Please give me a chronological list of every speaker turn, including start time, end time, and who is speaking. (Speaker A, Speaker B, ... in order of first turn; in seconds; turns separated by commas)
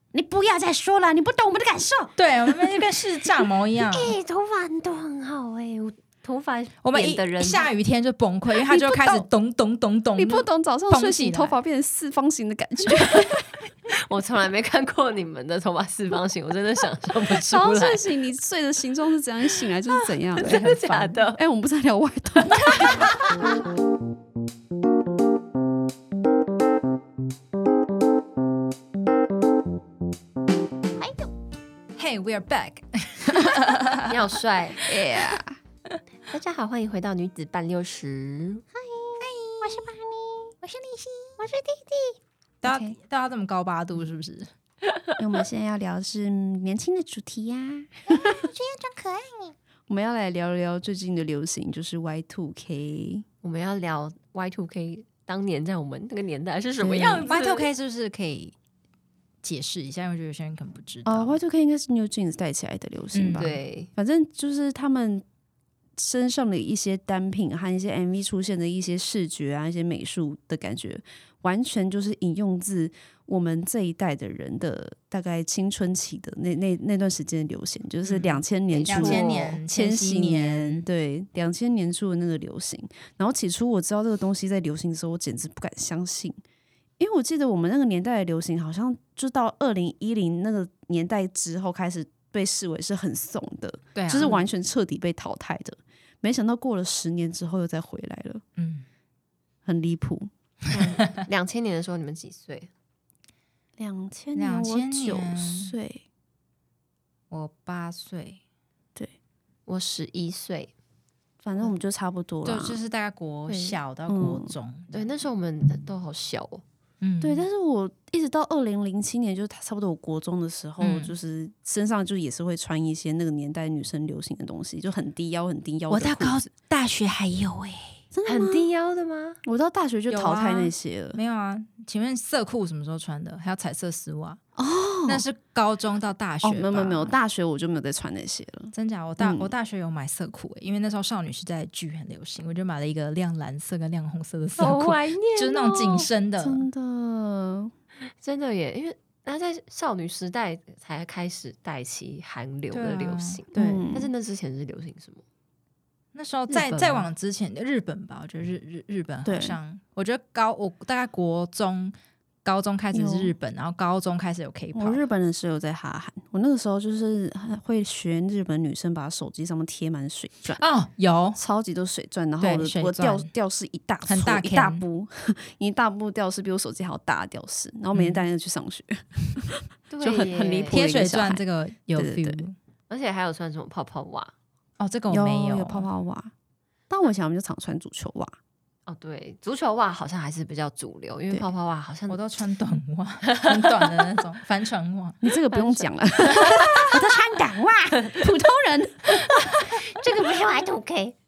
Speaker A: 0.1-2.1, Speaker B: 2.2-4.2, Speaker C: 3.9-7.7, Speaker B: 6.8-11.6, Speaker D: 8.6-9.2, Speaker D: 10.2-13.4, Speaker C: 13.9-18.0, Speaker D: 17.3-20.8, Speaker C: 20.3-21.4, Speaker B: 20.4-21.1, Speaker D: 21.3-22.9, Speaker B: 22.6-23.2, Speaker A: 31.0-31.3, Speaker B: 31.9-34.1, Speaker C: 34.1-34.8, Speaker D: 34.9-35.6, Speaker B: 34.9-35.4, Speaker C: 36.3-38.6, Speaker A: 38.7-42.2, Speaker B: 42.6-44.5, Speaker D: 42.6-43.0, Speaker D: 45.2-48.4, Speaker A: 48.1-49.5, Speaker D: 49.9-53.2, Speaker C: 53.4-57.7, Speaker B: 56.8-58.5, Speaker B: 59.4-61.4, Speaker D: 61.0-65.2, Speaker B: 63.1-63.5, Speaker C: 63.4-63.9, Speaker D: 66.0-86.4, Speaker B: 78.0-80.8, Speaker C: 78.7-79.6, Speaker D: 87.0-98.4, Speaker B: 94.0-94.5, Speaker B: 98.6-98.8, Speaker D: 99.6-100.3, Speaker C: 100.7-102.7, Speaker D: 103.8-106.0, Speaker B: 104.3-105.7, Speaker B: 107.3-108.4, Speaker C: 109.7-110.7, Speaker D: 111.4-112.8, Speaker B: 112.4-114.9, Speaker C: 113.5-113.8, Speaker D: 114.1-114.5, Speaker C: 114.9-116.6, Speaker B: 117.0-117.5, Speaker D: 117.2-126.5, Speaker B: 120.8-121.1, Speaker B: 125.9-128.0, Speaker D: 128.1-128.7, Speaker C: 128.2-129.4, Speaker D: 129.4-131.2, Speaker B: 130.1-134.4, Speaker D: 134.6-135.2, Speaker B: 135.1-137.1, Speaker D: 136.4-139.5, Speaker B: 138.7-146.7, Speaker C: 144.6-146.1, Speaker D: 146.4-147.7, Speaker C: 148.2-155.2, Speaker B: 152.7-153.9, Speaker D: 153.5-154.1, Speaker B: 156.1-165.0, Speaker C: 156.5-157.1, Speaker D: 159.2-159.6, Speaker D: 162.9-163.3, Speaker D: 164.7-170.6, Speaker B: 170.6-171.4, Speaker D: 171.4-181.4, Speaker B: 172.4-173.3, Speaker B: 174.1-174.8, Speaker B: 177.9-178.2, Speaker C: 179.9-180.8, Speaker B: 180.7-182.5, Speaker D: 181.9-182.4, Speaker C: 182.9-184.3, Speaker B: 184.8-185.9, Speaker D: 185.1-186.3, Speaker D: 186.9-188.3, Speaker C: 188.9-192.2, Speaker B: 192.1-195.2, Speaker C: 193.3-193.7, Speaker D: 195.2-199.4, Speaker B: 196.4-196.7, Speaker A: 199.8-201.2